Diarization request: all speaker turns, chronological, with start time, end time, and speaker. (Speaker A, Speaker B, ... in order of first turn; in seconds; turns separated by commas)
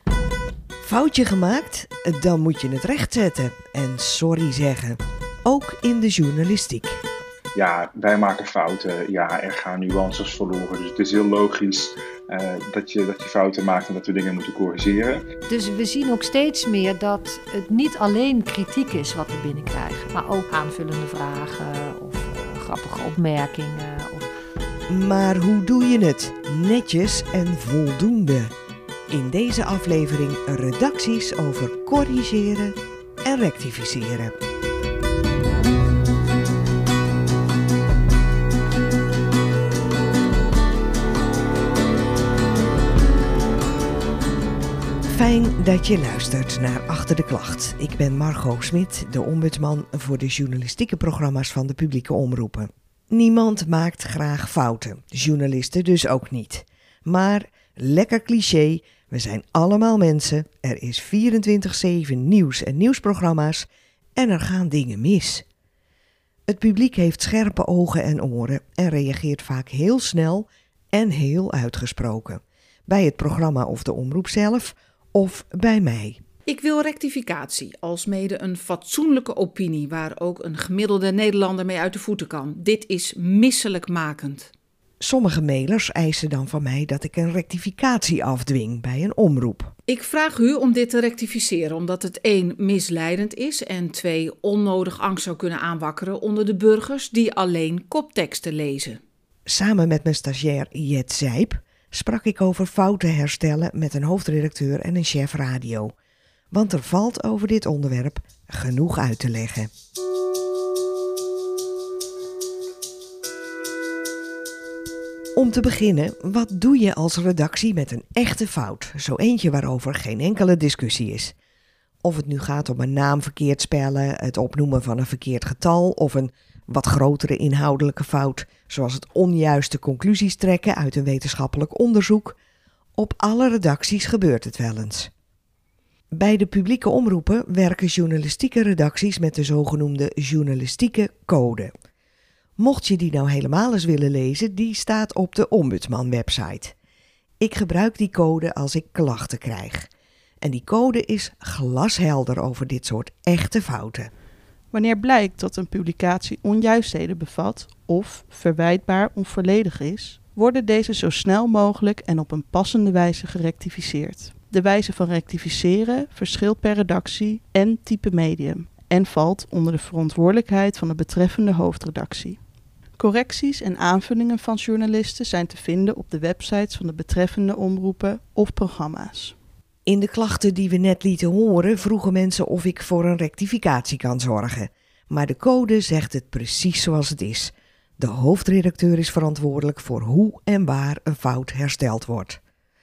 Speaker A: 0.8-7.0, Speaker B: 7.5-15.3, Speaker C: 15.5-24.3, Speaker A: 24.9-28.5, Speaker A: 29.1-34.3, Speaker A: 45.0-65.4, Speaker A: 66.5-76.2, Speaker D: 76.5-84.5, Speaker A: 85.0-89.7, Speaker D: 89.9-99.0, Speaker A: 99.5-105.9, Speaker A: 106.5-109.7, Speaker A: 115.3-121.3, Speaker A: 122.0-132.4, Speaker A: 133.0-135.1, Speaker A: 136.1-141.7, Speaker A: 142.6-146.7, Speaker A: 147.4-149.9, Speaker A: 150.4-154.1, Speaker E: 154.7-172.4, Speaker E: 173.0-179.3, Speaker A: 179.8-192.4